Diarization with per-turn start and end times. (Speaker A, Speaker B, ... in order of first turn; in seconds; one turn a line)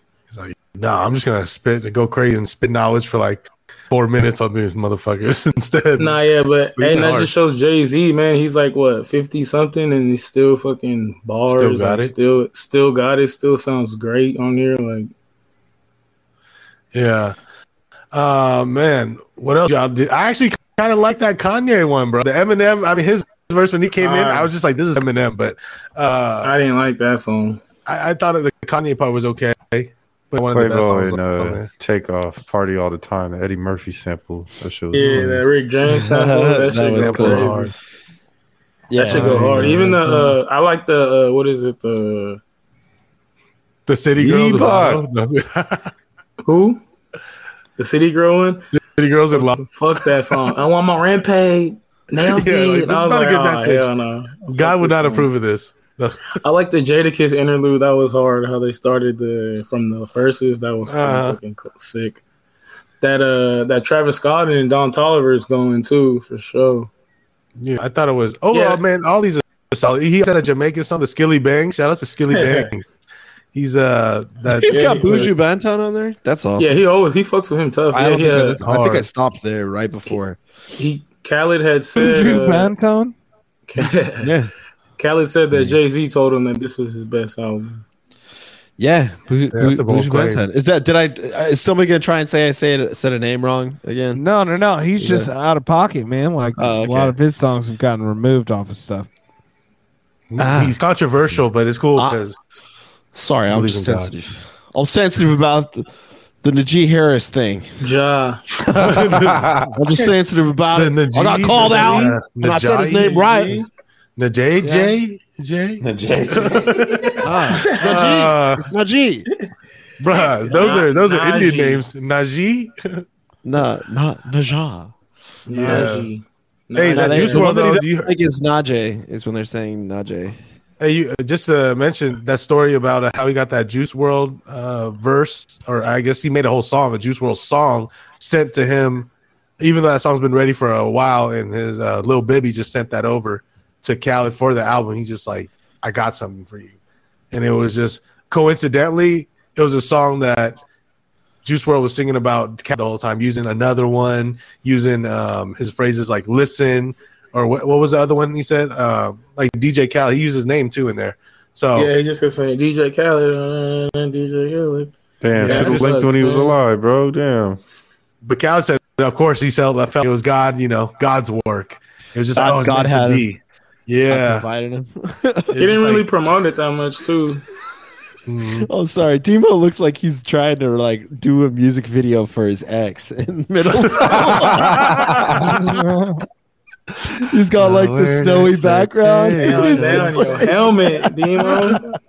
Speaker A: 0.3-6.2
Speaker B: 6.0-15.1
Speaker A: 6.8-7.3
Speaker A: 11.5-12.1
Speaker A: 16.9-17.4
Speaker A: 18.1-26.5
Speaker B: 24.0-24.5
Speaker B: 26.4-27.6
Speaker A: 27.9-31.7
Speaker C: 30.4-35.4
Speaker B: 34.9-37.7
Speaker D: 35.9-37.6
Speaker A: 36.9-37.7
Speaker D: 38.9-40.3
Speaker B: 39.0-42.4
Speaker A: 39.0-40.0
Speaker A: 43.9-45.9
Speaker C: 44.2-45.0
Speaker D: 44.4-44.9
Speaker B: 46.4-46.8
Speaker B: 47.8-48.7
Speaker A: 48.7-49.7
Speaker B: 49.3-55.3
Speaker A: 52.2-53.9
Speaker A: 54.5-56.4
Speaker B: 56.4-62.2
Speaker A: 60.9-61.4
Speaker B: 63.0-66.9
Speaker A: 67.6-72.9
Speaker B: 68.5-68.8
Speaker B: 72.3-72.7
Speaker A: 73.5-75.0
Speaker D: 74.5-76.8
Speaker B: 74.7-75.3
Speaker B: 76.6-78.6
Speaker D: 77.9-80.4
Speaker A: 78.6-79.1
Speaker B: 80.8-82.7
Speaker E: 82.0-83.1
Speaker B: 83.7-84.3
Speaker D: 84.2-84.5
Speaker B: 85.0-87.8
Speaker D: 88.8-94.2
Speaker A: 89.5-90.4
Speaker E: 94.1-99.1
Speaker D: 95.0-95.3
Speaker D: 96.6-97.2
Speaker A: 100.3-102.4
Speaker D: 100.4-100.8
Speaker D: 103.1-105.9
Speaker A: 103.5-104.1
Speaker D: 106.4-107.7
Speaker B: 107.8-108.4
Speaker D: 108.7-113.7
Speaker A: 108.8-109.5
Speaker C: 108.8-109.7
Speaker A: 110.7-113.5
Speaker B: 111.6-112.1
Speaker B: 113.0-113.7
Speaker A: 114.2-118.7
Speaker D: 114.6-115.0
Speaker C: 115.8-116.6
Speaker B: 117.0-118.0
Speaker D: 117.2-119.3
Speaker A: 120.0-123.0
Speaker B: 120.1-121.8
Speaker D: 123.4-124.9
Speaker B: 125.5-127.5
Speaker A: 125.5-126.1
Speaker D: 125.6-125.9
Speaker A: 126.7-128.1
Speaker D: 126.9-130.4
Speaker A: 130.8-146.8
Speaker A: 147.3-150.6
Speaker A: 151.4-161.9
Speaker B: 161.7-166.5
Speaker C: 165.2-167.6
Speaker A: 165.4-166.1
Speaker A: 168.2-174.4
Speaker D: 172.3-173.3
Speaker D: 174.1-175.6
Speaker A: 175.5-176.0
Speaker B: 175.6-177.4
Speaker A: 178.3-178.7
Speaker D: 178.6-185.7
Speaker A: 183.7-185.6
Speaker E: 185.5-186.2
Speaker D: 187.0-191.8
Speaker C: 187.6-190.2
Speaker B: 189.4-191.9